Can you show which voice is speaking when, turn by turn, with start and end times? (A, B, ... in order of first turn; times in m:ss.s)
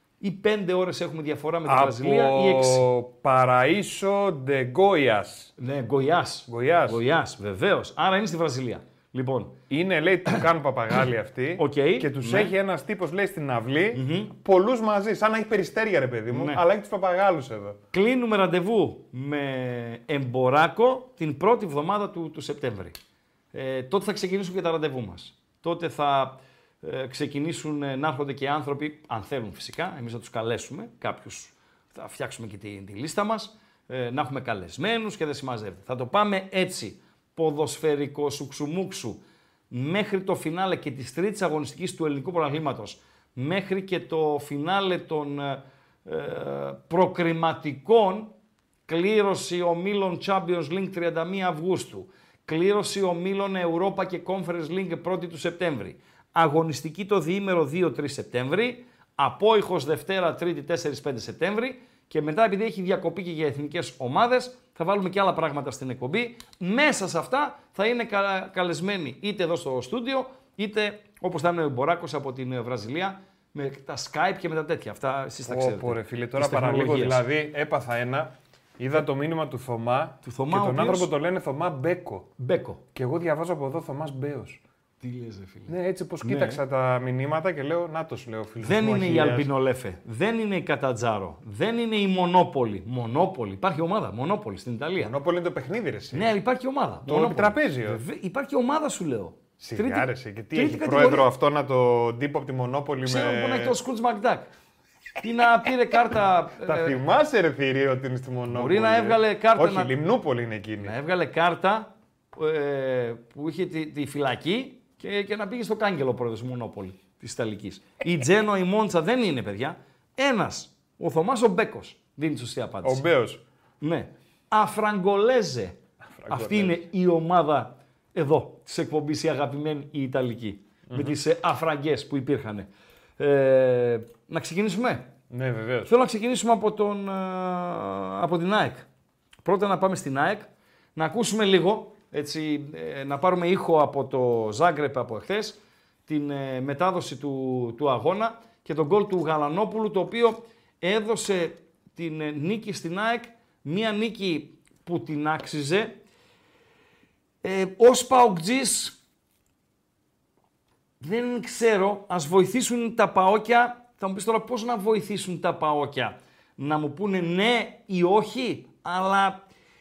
0:00.2-0:02.8 A
0:01.6-0:05.5 B
0:05.6-0:09.6 A
0:06.5-0:07.0 B
0:09.7-0:17.8 B
0:11.6-0:12.5 A
0:13.9-0:14.3 A
0:16.3-0:16.6 A
0:17.9-0:23.0 A
0:23.5-0:48.3 A
0:48.9-1:17.2 A
1:15.5-1:22.3 B
1:20.2-1:21.1 A
1:22.4-1:22.8 A
1:22.9-1:24.6 B
1:25.0-1:26.6 A
1:25.7-1:29.5 B
1:28.6-1:35.1 A
1:35.0-1:36.3 B
1:36.1-1:41.3 A
1:37.0-1:38.0 B
1:39.6-1:43.8 B
1:43.0-1:44.5 A
1:45.2-1:47.0 A
1:46.6-1:51.0 B
1:48.5-1:49.9 A
1:50.8-2:03.0 A
2:02.8-2:03.4 B
2:03.8-2:15.1 A
2:06.1-2:06.8 B
2:10.9-2:11.1 B
2:15.3-2:15.9 B
2:15.8-2:18.9 A
2:19.4-2:36.0 A
2:37.4-2:39.0 A
2:41.0-2:49.4 A